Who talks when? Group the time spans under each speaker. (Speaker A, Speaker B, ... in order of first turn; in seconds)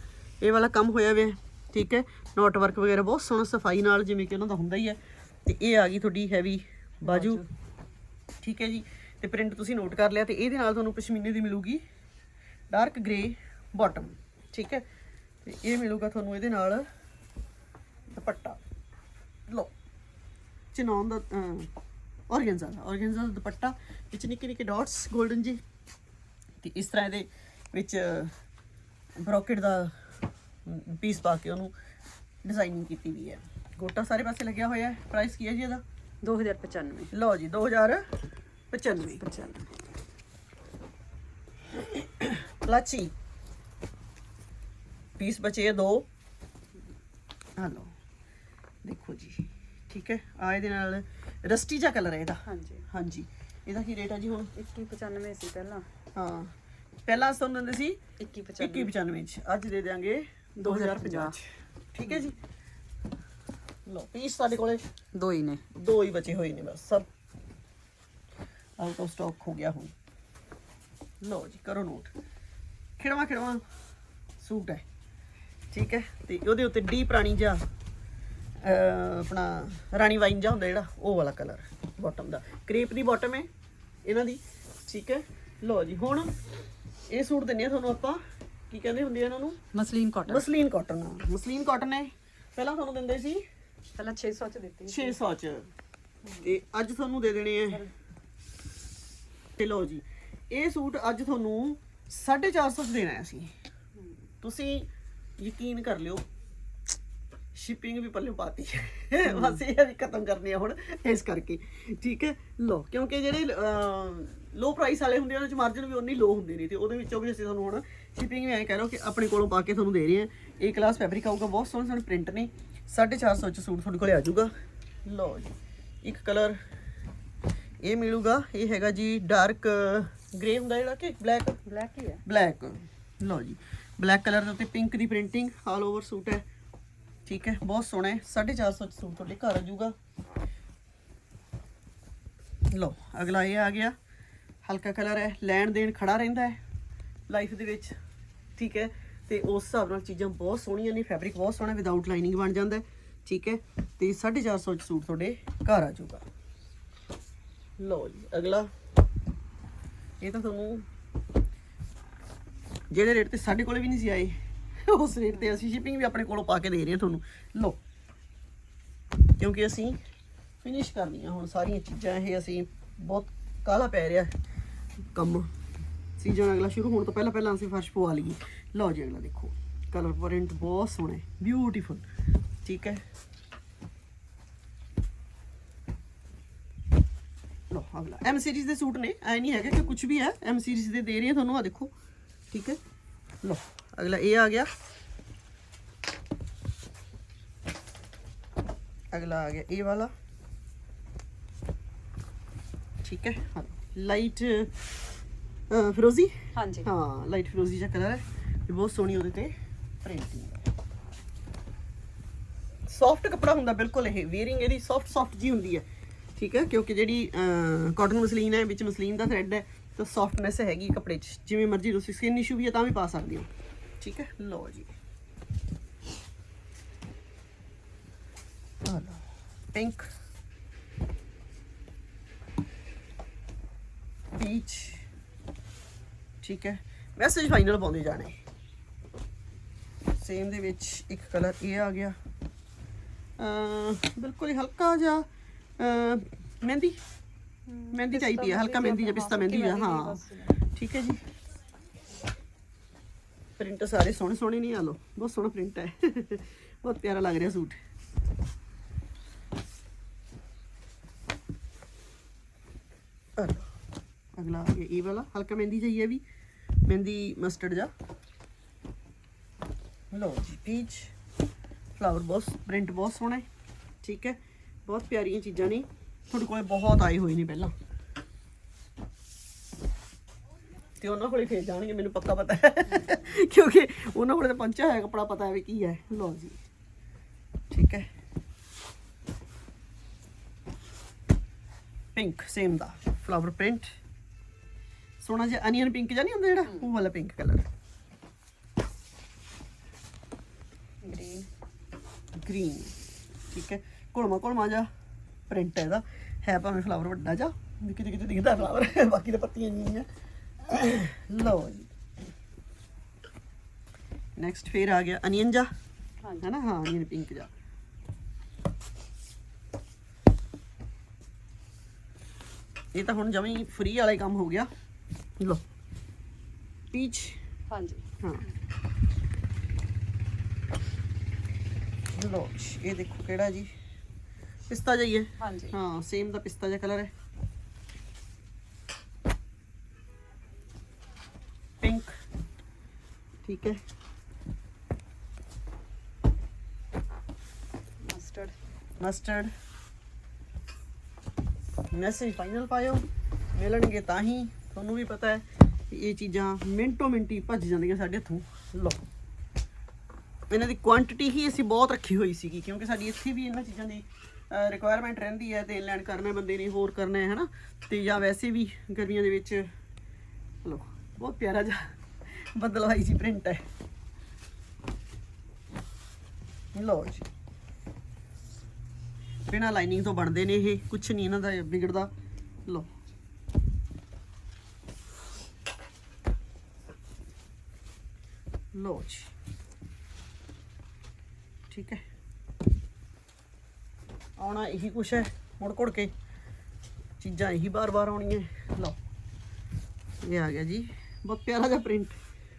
Speaker A: 0.4-7.4, 8.4-11.8, 12.7-14.8, 15.4-16.8, 18.1-18.6, 20.7-21.7, 22.3-25.6, 26.6-28.3, 29.2-29.9, 30.6-31.7, 32.4-35.8, 37.1-38.0, 38.7-39.2, 41.7-43.1, 45.2-46.0, 47.6-47.9, 48.8-54.5, 56.1-56.5, 57.1-58.0, 58.6-62.4, 63.9-64.8, 65.7-67.1, 68.8-69.9, 71.2-72.1, 73.0-73.6, 74.4-74.8, 75.7-77.6, 78.6-83.5, 84.0-86.3, 87.1-89.6, 90.3-93.4, 94.9-95.7, 96.4-97.8, 99.6-103.5, 104.4-104.9, 105.4-106.2, 107.5-124.5, 125.0-126.6, 127.8-131.6, 132.2-136.4, 137.2-139.9, 142.7-143.9, 144.6-146.6, 147.3-147.9, 148.6-156.2, 157.8-158.7, 160.2-160.8, 162.9-167.8, 169.4-170.0, 170.6-174.3, 175.1-175.5, 176.2-182.0, 182.6-183.0, 187.7-191.9, 192.5-192.8, 193.4-194.7, 199.1-200.1, 203.0-204.8, 205.7-210.6, 212.9-215.8, 216.4-223.5, 224.0-224.9, 228.8-230.1, 234.3-235.1, 236.4-238.4, 240.2-242.2, 243.4-245.2, 245.8-247.0, 247.9-251.2, 253.6-257.8, 263.4-263.7, 264.4-266.2, 266.9-267.9, 270.1-271.1, 272.0-273.5, 274.0-277.7, 281.0-286.6, 287.7-288.1, 292.1-293.9, 295.2-297.7, 302.4-302.9, 303.5-304.9, 305.5-310.1, 310.6-311.9, 314.4-315.7, 316.4-317.5, 322.9-324.7, 326.9-327.4, 332.1-333.7, 334.7-337.1, 341.8-342.1, 343.4-343.8, 349.0-349.5, 351.9-359.0, 360.5-369.7, 370.6-373.6, 376.7-377.3, 379.5-382.1, 388.7-389.3, 391.7-392.0, 394.4-396.1, 397.2-398.9, 400.2-402.2
Speaker B: 7.0-7.5, 36.2-37.1, 39.2-39.7, 52.4-52.8, 54.5-55.9, 58.2-58.9, 60.6-61.4, 65.1-65.6, 89.7-90.4, 94.0-95.2, 96.2-96.5, 109.3-109.6, 131.7-132.2, 189.6-190.0, 206.6-206.9, 247.7-250.6, 301.0-301.5, 316.2-316.5, 327.7-328.0, 335.4-335.7, 348.1-348.5